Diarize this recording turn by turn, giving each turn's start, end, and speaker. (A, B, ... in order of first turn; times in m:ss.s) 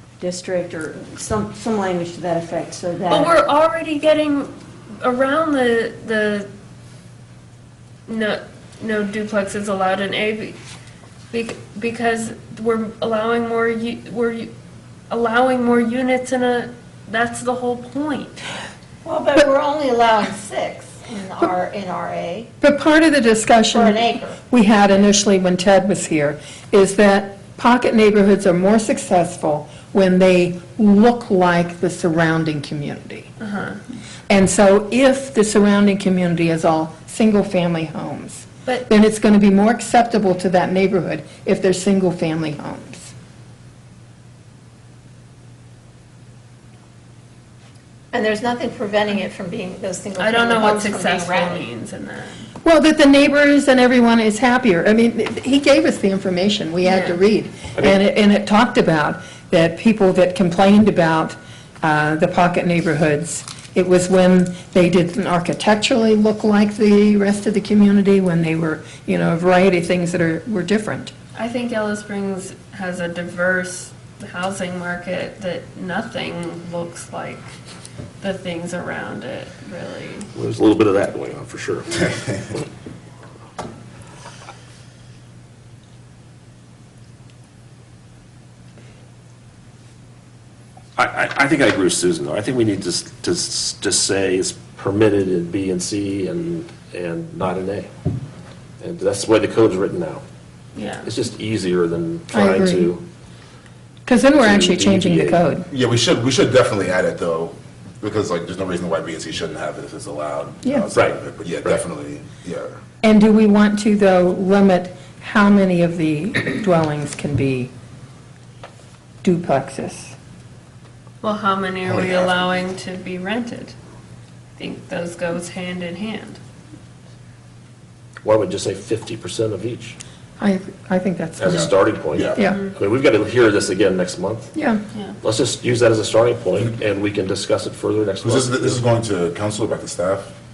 0:00.2-0:03.4 A
0:03.1-0:04.5 B
0:05.0-0:06.5 B
0:08.1-0:10.6 B
0:11.3-0:14.5 B
0:15.1-0:18.4 B
0:19.0-0:22.5 C
0:22.6-0:24.0 D
0:23.7-0:24.4 C
0:24.5-0:33.3 D
0:33.4-0:33.8 B
0:34.3-0:43.1 D
0:48.1-0:51.6 C
0:50.2-0:52.5 B
0:52.6-1:11.1 D
0:56.8-0:57.2 B
0:57.7-0:58.0 E
1:11.3-1:17.5 B
1:18.2-1:20.3 B
1:20.3-1:22.1 E
1:31.0-1:37.9 E
1:38.8-1:40.2 E
1:40.8-1:41.1 B
1:41.0-1:43.0 E
1:42.3-1:42.9 D
1:44.0-1:45.7 D
1:44.4-1:45.5 E
1:45.7-1:52.8 F
1:50.9-1:51.8 E
1:53.0-1:57.7 D
1:59.2-2:00.2 D
2:01.2-2:03.7 B
2:01.9-2:02.2 F
2:04.6-2:06.4 B
2:08.2-2:10.0 E
2:10.4-2:11.6 D
2:11.4-2:14.5 E
2:11.4-2:12.4 F
2:12.4-2:12.6 D
2:12.4-2:12.7 B
2:14.6-2:14.8 D
2:15.2-2:18.8 E
2:18.2-2:20.3 F